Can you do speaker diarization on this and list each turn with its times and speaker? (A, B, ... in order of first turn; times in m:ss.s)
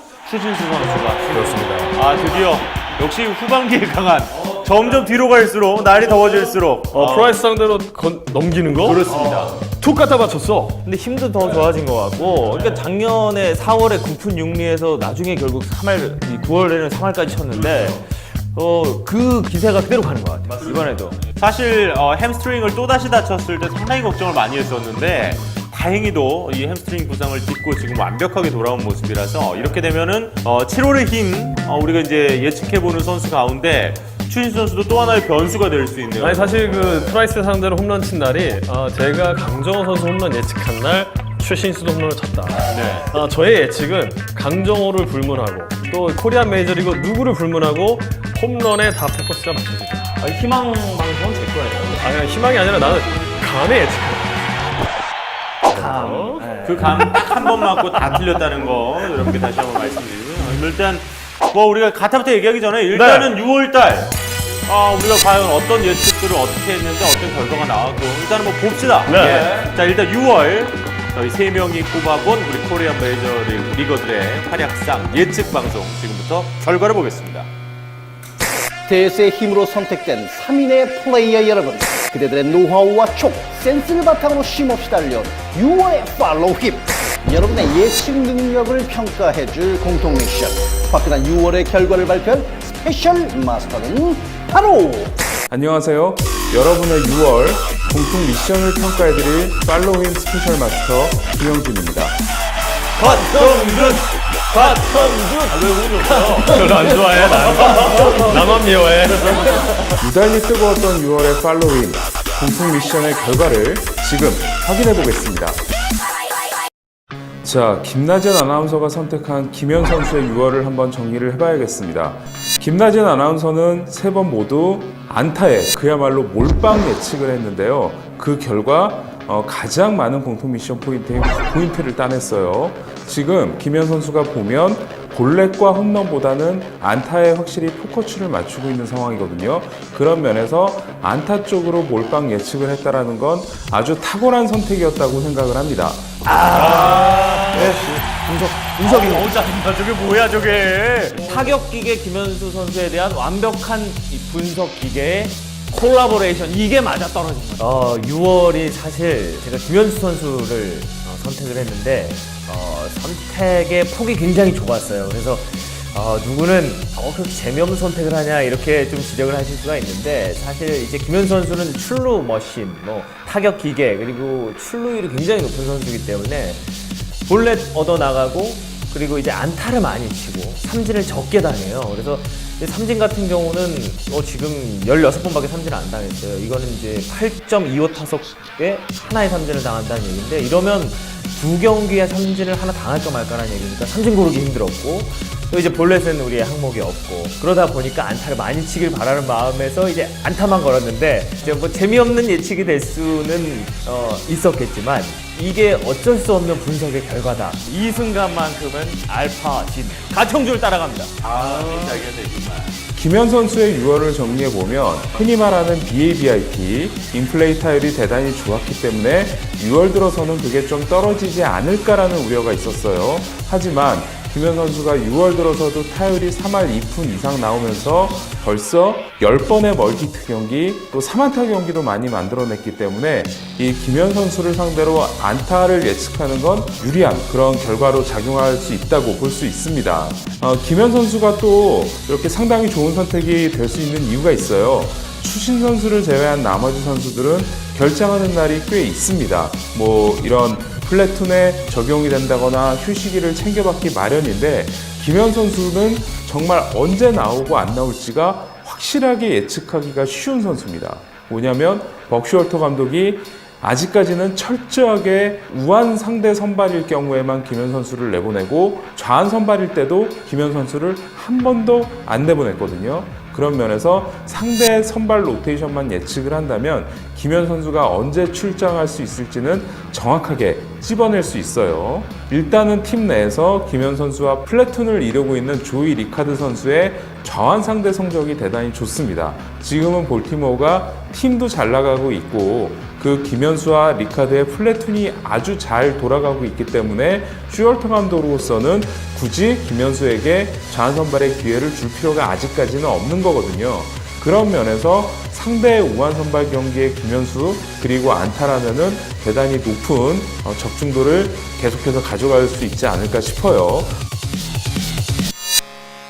0:00.2-0:07.4 A
0:01.3-0:02.0 B
0:01.3-0:01.7 C
0:06.9-0:10.8 B
0:08.7-0:09.6 A
0:10.8-0:21.2 C
0:20.7-0:37.2 A
0:36.2-0:50.1 B
0:42.7-0:43.1 A
0:50.2-0:52.0 C
0:52.0-0:54.8 B
0:55.7-0:56.5 B
0:55.7-0:57.1 C
0:56.6-1:04.1 A
1:02.9-1:03.3 B
1:04.7-1:17.5 A
1:09.1-1:09.6 B
1:18.9-1:35.2 D
1:35.5-1:42.2 E
1:43.0-1:48.4 C
1:43.1-1:43.9 B
1:43.3-1:44.0 A
1:44.6-1:45.1 B
1:44.6-1:45.1 A
1:46.0-1:49.6 B
1:49.1-1:49.7 A
1:49.3-1:49.7 C
1:50.0-1:55.6 E
1:57.4-2:26.1 E
2:26.2-2:29.3 C
2:26.5-2:27.9 A
2:28.8-2:31.4 A
2:31.2-2:56.7 C
2:57.3-3:32.0 C
3:31.2-3:32.8 A
3:32.9-5:13.9 E